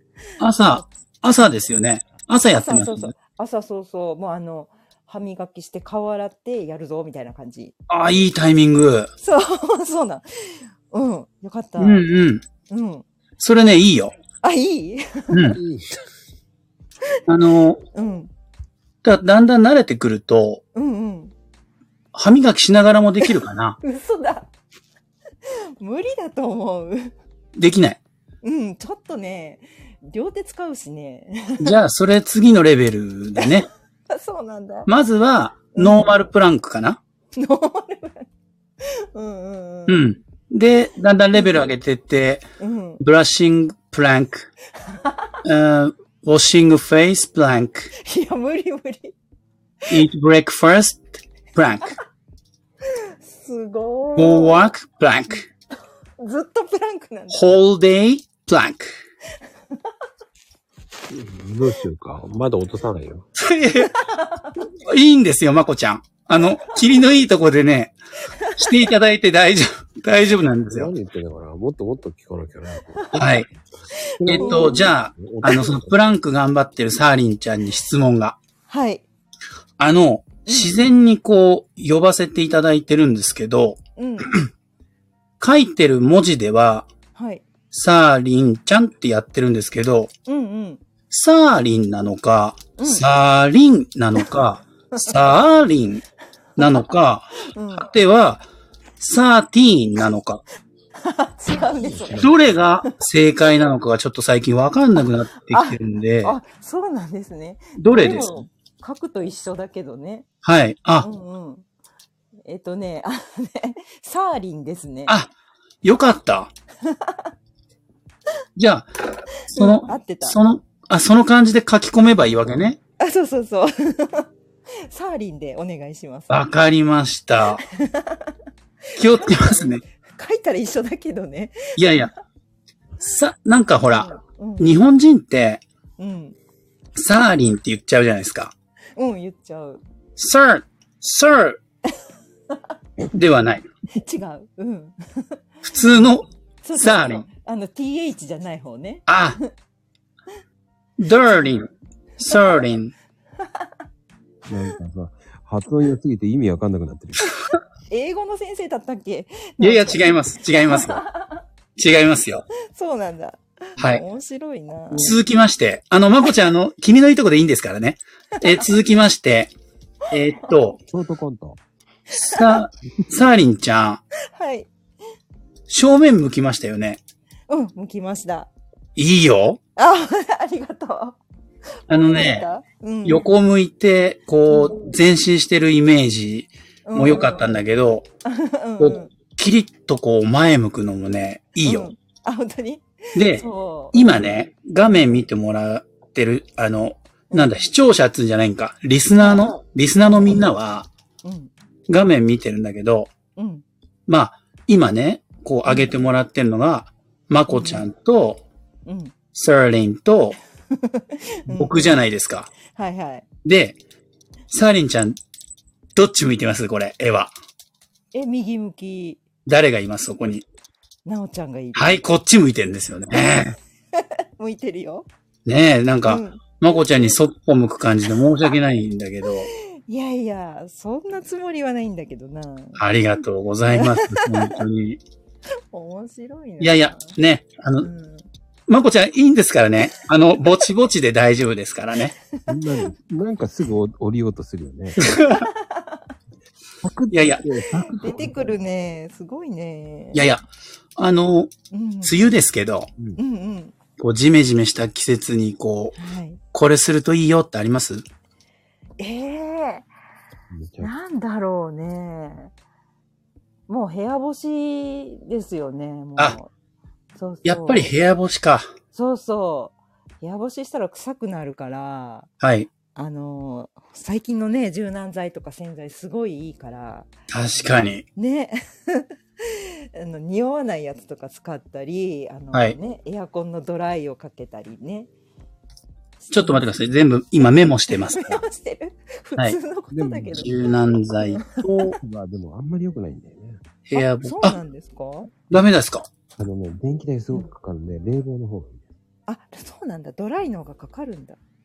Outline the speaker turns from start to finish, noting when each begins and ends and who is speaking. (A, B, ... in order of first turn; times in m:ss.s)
0:00.4-0:03.1 A
0:02.5-0:07.7 B
0:07.9-0:09.1 A
0:09.2-0:12.0 B
0:11.8-0:12.4 A
0:12.7-0:13.0 B
0:13.4-0:14.1 A
0:14.4-0:15.5 B
0:15.3-0:15.6 A
0:15.5-0:16.0 C
0:17.3-0:17.8 A
0:17.9-0:18.3 B
0:19.0-0:20.6 A
0:20.7-0:21.3 B
0:22.1-0:23.8 A
0:23.2-0:24.5 B
0:25.5-0:27.1 B
0:27.6-0:28.0 A
0:28.4-0:31.8 B
0:31.6-0:33.7 A
0:33.4-0:34.9 B
0:34.9-0:37.0 A
0:35.7-0:36.2 B
0:37.4-0:38.3 B
0:38.8-0:40.0 B
0:39.9-0:42.4 A
0:41.3-0:41.7 B
0:42.6-0:43.0 B
0:43.0-0:44.4 A
0:44.9-0:45.4 B
0:45.4-0:47.9 A
0:48.0-0:49.1 B
0:49.9-0:52.0 A
0:53.0-0:54.7 B
0:54.2-0:55.5 A
0:56.2-0:57.6 B
0:57.3-0:58.9 A
1:01.1-1:03.3 C
1:03.4-1:03.9 A
1:03.8-1:04.6 B
1:04.8-1:10.9 A
1:06.4-1:06.7 B
1:08.3-1:08.9 B
1:10.7-1:13.4 C
1:13.0-1:13.2 B
1:13.1-1:13.5 A
1:14.0-1:14.9 B
1:14.2-1:16.0 C
1:14.2-1:18.4 A
1:18.7-1:19.0 B
1:19.8-1:23.8 A
1:20.4-1:20.8 B
1:24.0-1:24.3 B
1:25.4-1:26.9 A
1:27.1-1:27.4 B
1:27.7-1:30.1 A
1:30.3-1:30.8 B
1:31.1-1:36.0 A
1:32.8-1:33.0 B
1:34.9-1:35.2 B
1:36.6-1:38.4 A
1:37.5-1:37.9 B
1:39.0-1:40.4 A
1:41.0-1:42.3 B
1:41.6-1:42.5 C
1:42.2-1:46.4 A
1:45.4-1:50.2 B
1:47.8-1:48.4 A
1:50.4-1:51.1 A
1:51.0-1:51.6 B
1:52.4-1:55.1 B
1:55.8-1:56.5 A
1:56.8-1:57.3 B
1:58.6-2:02.8 A
1:59.5-2:00.4 B
2:03.0-2:04.3 B
2:04.8-2:06.4 B
2:06.3-2:07.6 A
2:07.6-2:08.3 B
2:09.0-2:09.8 A
2:09.0-2:12.1 B
2:11.8-2:12.1 A
2:13.0-2:15.6 A
2:13.9-2:14.8 B
2:16.0-2:16.4 B
2:17.0-2:18.5 A
2:19.0-2:19.8 B
2:20.2-2:21.6 A
2:23.1-2:23.7 A
2:23.9-2:25.4 B
2:25.6-2:27.3 A
2:26.6-2:29.5 B
2:29.1-2:29.4 A
2:31.0-2:31.7 A
2:32.2-2:32.9 A
2:32.3-2:32.6 B
2:34.5-2:37.3 C
2:37.9-2:40.1 B
2:39.6-2:41.0 A
2:40.6-2:41.4 B
2:41.8-2:42.4 A
2:42.6-2:45.2 B
2:43.8-2:44.0 A
2:44.9-2:49.5 A
2:48.4-2:48.7 B
2:50.1-2:50.8 A
2:50.8-2:51.6 C
2:52.1-2:52.6 B
2:52.2-2:54.0 A
2:54.3-2:54.7 B
2:55.7-2:57.0 A
2:57.5-2:58.5 B
2:59.0-2:59.6 A
2:59.8-3:01.2 B
3:01.9-3:03.2 B
3:01.9-3:02.5 A
3:03.0-3:08.1 A
3:04.5-3:04.8 B
3:06.8-3:07.6 B
3:08.2-3:09.1 B
3:08.8-3:11.9 A
3:11.6-3:14.2 B
3:13.1-3:20.9 A
3:17.3-3:17.7 B
3:19.2-3:20.4 B
3:21.2-3:21.5 B
3:21.9-3:23.1 A
3:23.4-3:23.6 B
3:24.1-3:28.4 A
3:25.6-3:25.9 B
3:27.5-3:27.9 B
3:28.8-3:29.1 B
3:29.3-3:30.4 A
3:30.7-3:32.0 B
3:31.5-3:32.5 A
3:32.6-3:33.2 B
3:33.4-3:33.8 A
3:34.5-3:35.2 A
3:35.9-3:37.3 A
3:38.1-3:39.2 B
3:39.4-3:40.4 A
3:41.0-3:42.0 B
3:41.7-3:43.6 A
3:43.1-3:43.4 B
3:44.0-3:45.1 B
3:45.4-3:49.5 A
3:46.0-3:46.4 B
3:49.4-3:52.8 B
3:52.8-3:55.0 A
3:53.7-3:54.6 B
3:55.7-3:57.1 B
3:56.6-3:57.9 A
3:57.8-3:58.3 B
3:58.7-4:02.1 A
4:02.5-4:05.0 C
4:05.0-4:05.5 A
4:05.3-4:06.0 B
4:06.8-4:08.6 C
4:07.1-4:07.4 A
4:07.8-4:10.2 B
4:10.1-4:11.5 A
4:11.7-4:12.3 B
4:12.0-4:12.9 A
4:13.2-4:13.7 B
4:14.0-4:16.0 A
4:16.0-4:16.4 B
4:16.5-4:18.0 A
4:19.0-4:19.9 B
4:20.5-4:20.9 C
4:20.8-4:22.5 B
4:23.7-4:26.5 B
4:27.2-4:27.9 B
4:27.4-4:28.7 A
4:28.9-4:32.3 B
4:32.4-4:32.7 A
4:32.9-4:45.1 B
4:37.3-4:38.0 A
4:46.2-4:46.7 B
4:46.3-4:48.4 A
4:47.9-4:50.5 B
4:49.9-4:50.5 C
4:50.4-4:51.9 A
4:51.2-4:51.6 B
4:51.6-4:53.6 C
4:53.9-4:54.6 A
4:53.9-4:55.3 B
4:55.5-4:56.1 A
4:56.3-4:58.9 C
4:59.3-5:01.4 B